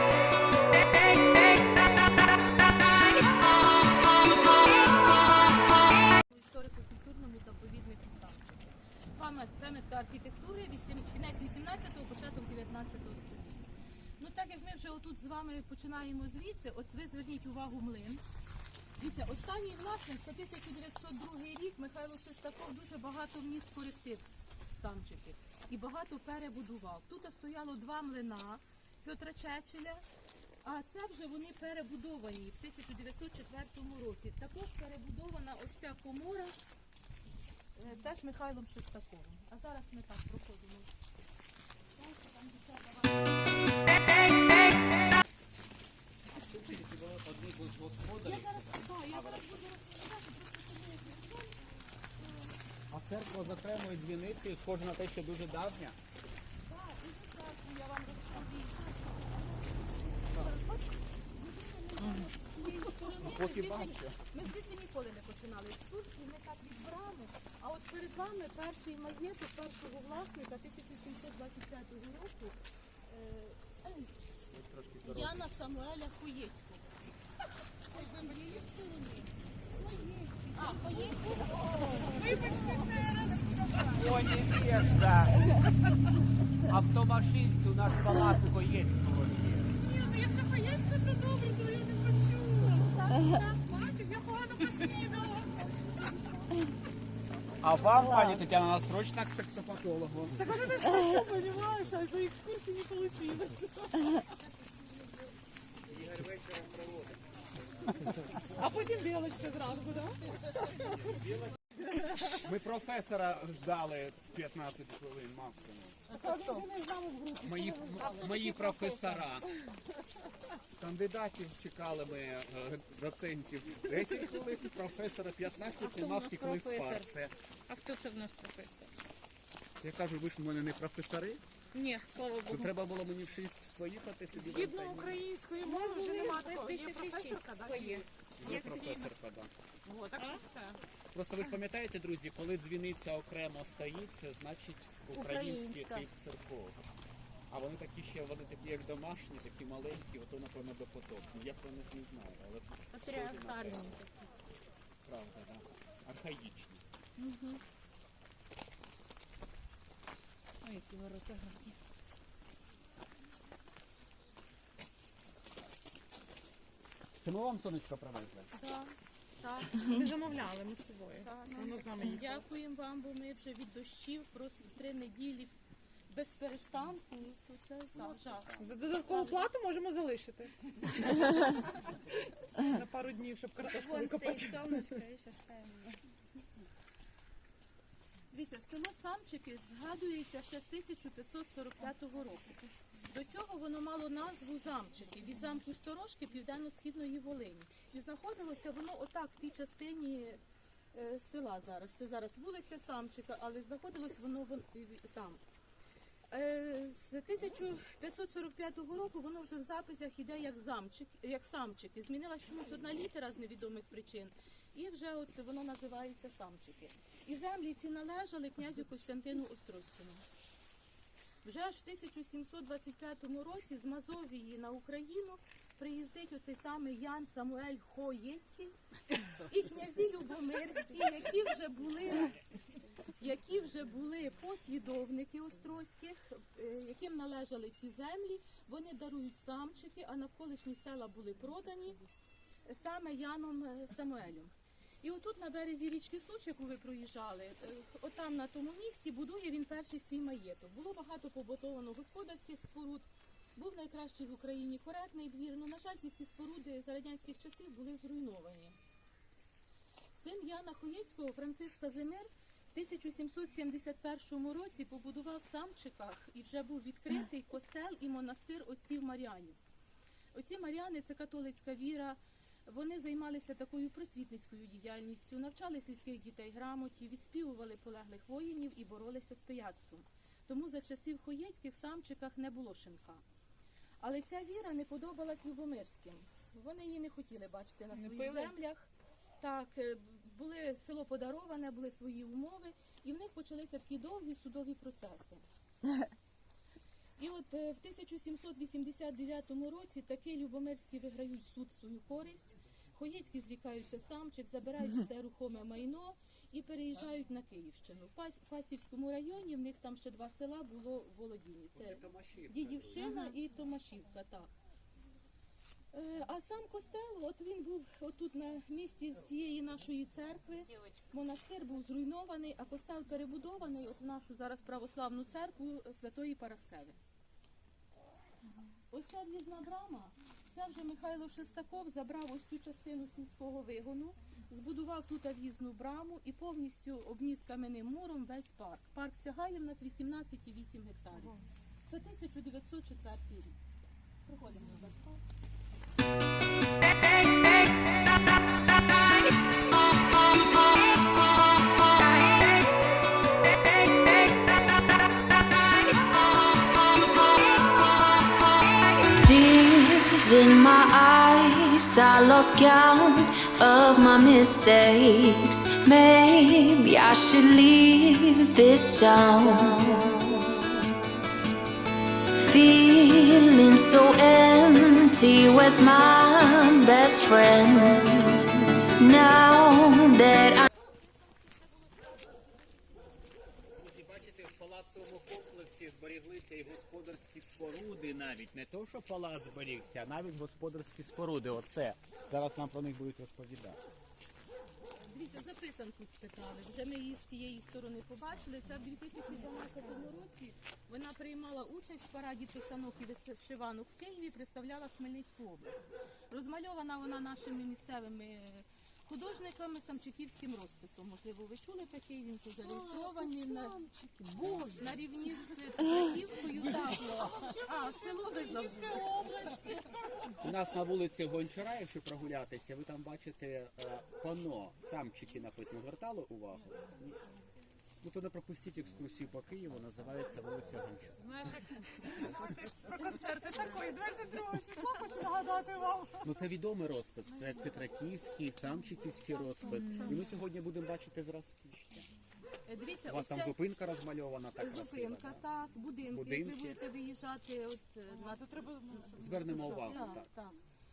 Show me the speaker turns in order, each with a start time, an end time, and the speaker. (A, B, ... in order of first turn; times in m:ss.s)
0:06.1-0:13.6 A
0:14.2-0:18.2 A
0:19.0-0:30.0 A
0:30.6-0:36.6 A
0:37.8-0:40.9 A
0:41.9-0:43.5 A
0:46.3-0:49.6 B
0:48.2-0:51.7 A
0:52.9-0:56.0 B
0:56.6-1:12.6 A
1:00.2-1:00.5 B
1:02.0-1:04.2 B
1:13.1-1:14.1 A
1:14.5-1:15.5 B
1:15.0-1:17.0 A
1:17.9-1:18.9 C
1:17.9-1:22.4 A
1:20.6-1:24.2 C
1:23.9-1:25.6 B
1:26.6-1:29.8 B
1:29.8-1:36.2 C
1:32.9-1:33.4 A
1:37.6-1:40.4 B
1:40.4-1:44.3 C
1:45.9-1:47.3 B
1:48.4-1:52.4 C
1:50.9-1:51.5 B
1:52.3-1:56.0 B
1:56.1-1:59.4 C
1:56.2-1:56.6 A
1:57.4-1:59.5 B
2:00.8-2:07.3 B
2:05.8-2:07.0 D
2:07.7-2:08.9 D
2:09.8-2:11.4 B
2:11.7-2:12.7 D
2:12.4-2:15.2 B
2:14.3-2:19.0 C
2:15.6-2:17.8 A
2:17.6-2:18.9 D
2:18.4-2:19.5 B
2:19.9-2:20.8 C
2:20.1-2:20.4 D
2:21.1-2:26.8 B
2:25.1-2:26.0 D
2:27.5-2:34.0 B
2:32.9-2:34.0 D
2:35.0-2:36.8 B
2:37.2-2:37.6 D
2:40.6-2:41.7 D
2:47.2-2:48.5 B
2:48.5-2:49.9 A
2:49.7-2:52.4 C
2:51.2-2:55.6 A
2:56.1-2:59.5 A
2:57.9-2:58.9 B
2:58.6-3:01.8 C
3:02.6-3:05.0 C
3:03.7-3:06.0 D
3:08.3-3:12.5 A
3:13.0-3:20.4 A
3:20.9-3:25.4 A
3:26.3-3:40.2 A
3:41.4-3:52.4 A
3:53.2-4:02.0 A
4:02.6-4:18.8 A
4:20.1-4:29.6 A
4:30.3-4:43.2 A
4:44.0-4:55.4 A
4:47.9-4:48.5 C
4:57.2-5:14.5 A
5:11.7-5:13.2 B
5:15.9-5:27.0 A
5:28.9-5:41.4 A
5:41.1-5:41.4 C
5:41.9-5:43.6 A
5:44.2-5:45.2 A
5:59.1-6:10.7 E
6:12.3-6:20.7 E
6:23.7-6:33.8 B
6:35.0-6:59.0 A
6:52.6-6:53.8 C
6:54.4-6:54.7 B
6:56.6-7:00.4 C
7:00.4-7:07.2 B
7:08.0-7:11.2 B
7:11.2-7:16.3 C
7:16.2-7:22.1 B
7:19.6-7:20.2 C
7:19.8-7:20.2 A
7:22.6-7:23.6 A
7:23.1-7:25.4 B
7:24.6-7:30.5 A
7:26.1-7:26.8 B
7:28.1-7:30.2 C
7:29.2-7:30.3 B